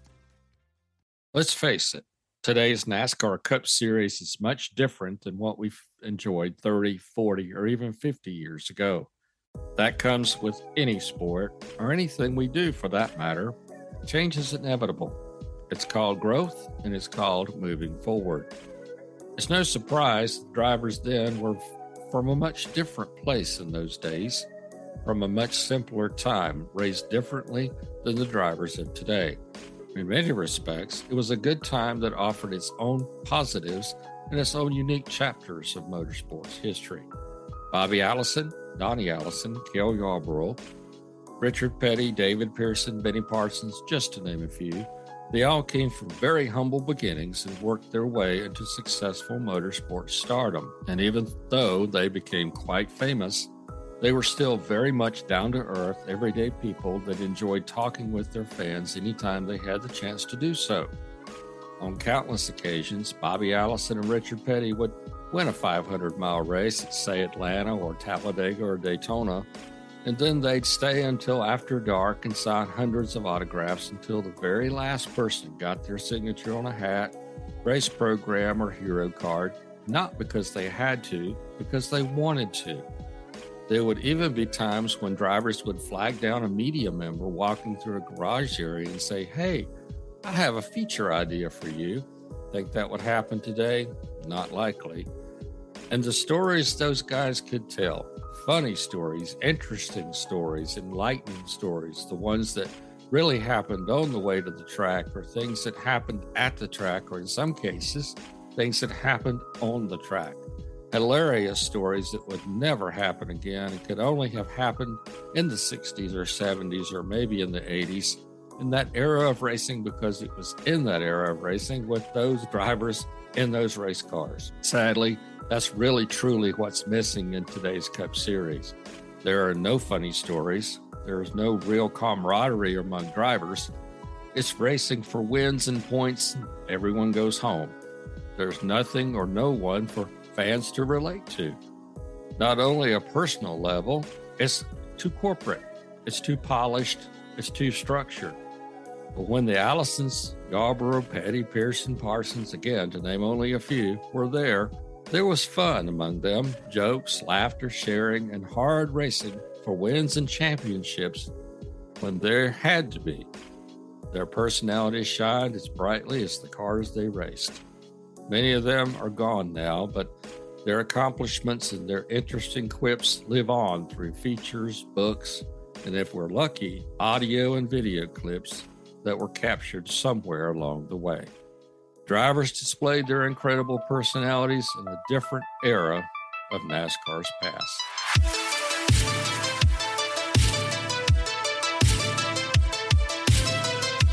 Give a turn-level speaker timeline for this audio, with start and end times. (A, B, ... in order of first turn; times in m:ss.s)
0:01.3-0:09.1 A
0:09.8-0:15.2 A
0:15.7-0:18.5 A
0:19.4-0:24.5 A
0:25.0-0:29.4 A
0:30.0-0:37.1 A
0:37.7-0:40.6 A
0:41.4-0:53.5 A
0:54.0-1:00.9 A
1:01.8-1:09.5 A
1:10.0-1:22.9 A
1:23.7-1:29.7 A
1:30.2-1:35.1 A
1:35.9-1:50.4 A
1:50.9-2:13.7 A
2:14.3-2:17.8 A
2:18.4-2:21.6 A
2:22.4-2:28.4 A
2:29.1-2:41.3 A
2:42.0-2:43.3 A
2:44.1-2:47.6 A
2:48.3-2:50.1 A
2:50.6-3:01.3 A
3:02.1-3:07.8 A